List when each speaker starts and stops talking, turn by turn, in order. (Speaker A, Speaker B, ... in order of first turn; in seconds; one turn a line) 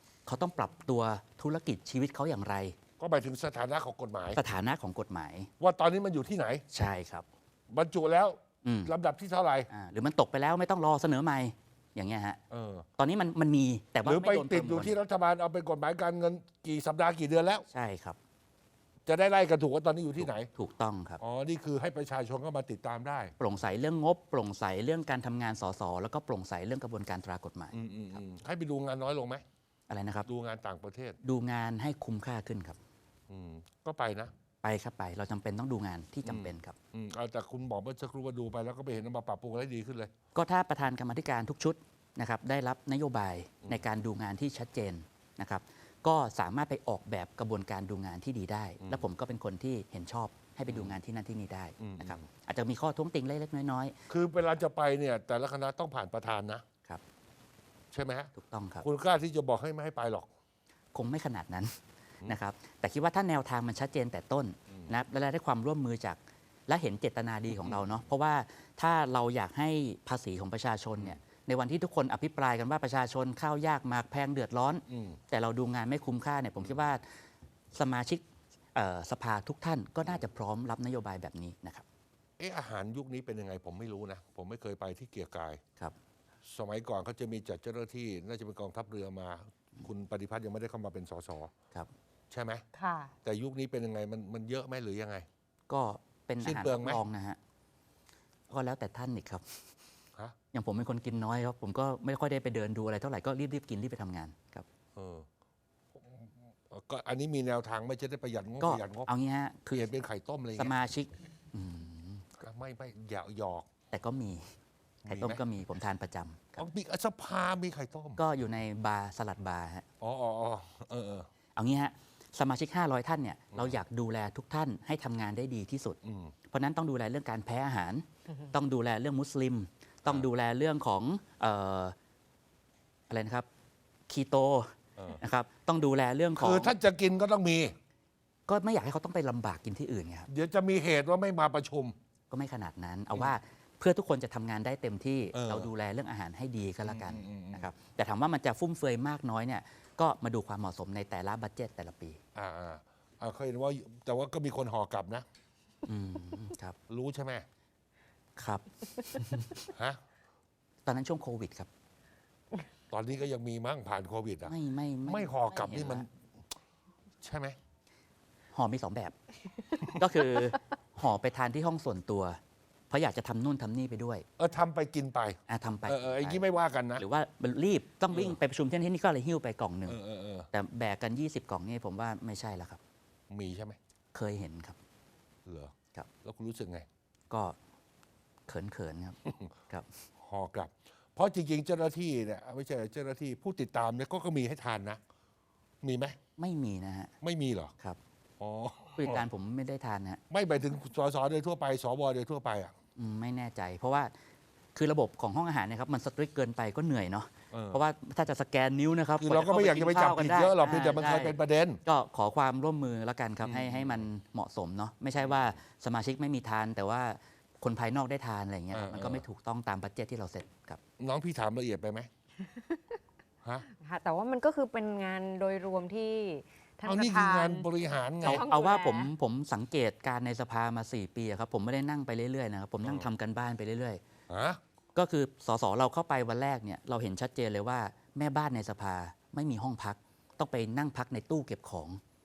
Speaker A: 0.3-2.8
Speaker B: 3.0-4.4
Speaker A: 4.3-5.5
Speaker B: 5.6-6.6
Speaker A: 6.7-7.2
Speaker B: 7.7-9.7
Speaker A: 8.6-8.9
Speaker A: 9.7-12.4
Speaker B: 12.5-12.9
Speaker A: 13.0-15.0
Speaker B: 14.0-17.6
Speaker A: 17.7-18.2
Speaker B: 19.1-20.5
Speaker A: 20.2-21.2
Speaker B: 21.2-23.3
Speaker A: 23.4-28.2
Speaker B: 27.7-29.4
Speaker A: 29.9-30.3
Speaker B: 30.2-31.2
Speaker A: 31.2-32.8
Speaker B: 33.3-34.3
Speaker A: 34.6-36.8
Speaker B: 36.2-40.1
Speaker A: 40.3-54.0
Speaker B: 50.7-51.0
Speaker B: 51.8-52.3
Speaker B: 54.1-56.6
Speaker B: 57.9-60.3
Speaker A: 58.3-58.8
Speaker A: 60.9-77.1
Speaker B: 67.5-67.8
Speaker B: 74.9-75.2
Speaker A: 77.7-78.2
Speaker A: 78.7-81.8
Speaker B: 82.4-85.6
Speaker B: 86.4-91.5
Speaker B: 92.3-92.6
Speaker C: 92.7-93.1
Speaker B: 93.2-95.2
Speaker A: 95.7-97.4
Speaker B: 96.4-97.0
Speaker A: 98.5-99.6
Speaker A: 100.5-104.7
Speaker B: 105.0-105.3
Speaker B: 106.0-109.1
Speaker A: 108.6-109.9
Speaker B: 109.7-110.7
Speaker A: 110.5-112.2
Speaker B: 112.4-113.7
Speaker A: 113.9-114.5
Speaker B: 115.0-115.4
Speaker A: 115.1-116.6
Speaker B: 116.6-118.2
Speaker A: 118.2-119.8
Speaker B: 120.0-121.3
Speaker A: 121.5-126.0
Speaker B: 123.5-123.8
Speaker B: 126.0-126.3
Speaker A: 126.5-131.9
Speaker A: 133.1-133.4
Speaker A: 134.1-136.7
Speaker B: 136.3-137.7
Speaker A: 138.5-140.3
Speaker B: 140.3-141.9
Speaker A: 142.3-152.2
Speaker B: 145.3-145.7
Speaker B: 146.8-147.7
Speaker B: 152.3-155.2
Speaker A: 155.8-156.8
Speaker B: 156.9-157.4
Speaker A: 158.4-159.7
Speaker B: 159.7-160.0
Speaker A: 160.8-161.7
Speaker B: 162.9-164.5
Speaker A: 164.4-166.1
Speaker B: 165.1-166.1
Speaker B: 167.2-167.6
Speaker A: 168.5-169.1
Speaker A: 169.8-174.2
Speaker B: 174.4-177.0
Speaker A: 175.5-176.4
Speaker A: 177.0-180.0
Speaker B: 178.1-178.4
Speaker B: 179.8-180.5
Speaker A: 180.5-182.8
Speaker B: 183.3-183.8
Speaker A: 184.1-184.8
Speaker B: 185.4-186.8
Speaker A: 187.3-187.6
Speaker A: 188.5-189.2
Speaker B: 189.2-189.5
Speaker B: 190.2-195.0
Speaker B: 195.8-196.2
Speaker A: 196.4-197.1
Speaker B: 197.2-197.7
Speaker B: 198.4-199.2
Speaker A: 199.0-200.2
Speaker B: 200.3-202.7
Speaker A: 202.9-204.1
Speaker A: 204.7-220.8
Speaker B: 207.5-207.8
Speaker B: 209.2-211.8
Speaker B: 213.4-214.1
Speaker B: 215.2-215.6
Speaker B: 218.7-219.2
Speaker B: 221.0-222.1
Speaker C: 223.7-227.7
Speaker B: 226.8-228.4
Speaker C: 228.2-229.1
Speaker A: 228.2-234.0
Speaker B: 232.8-233.1
Speaker B: 234.3-234.6
Speaker A: 234.9-242.0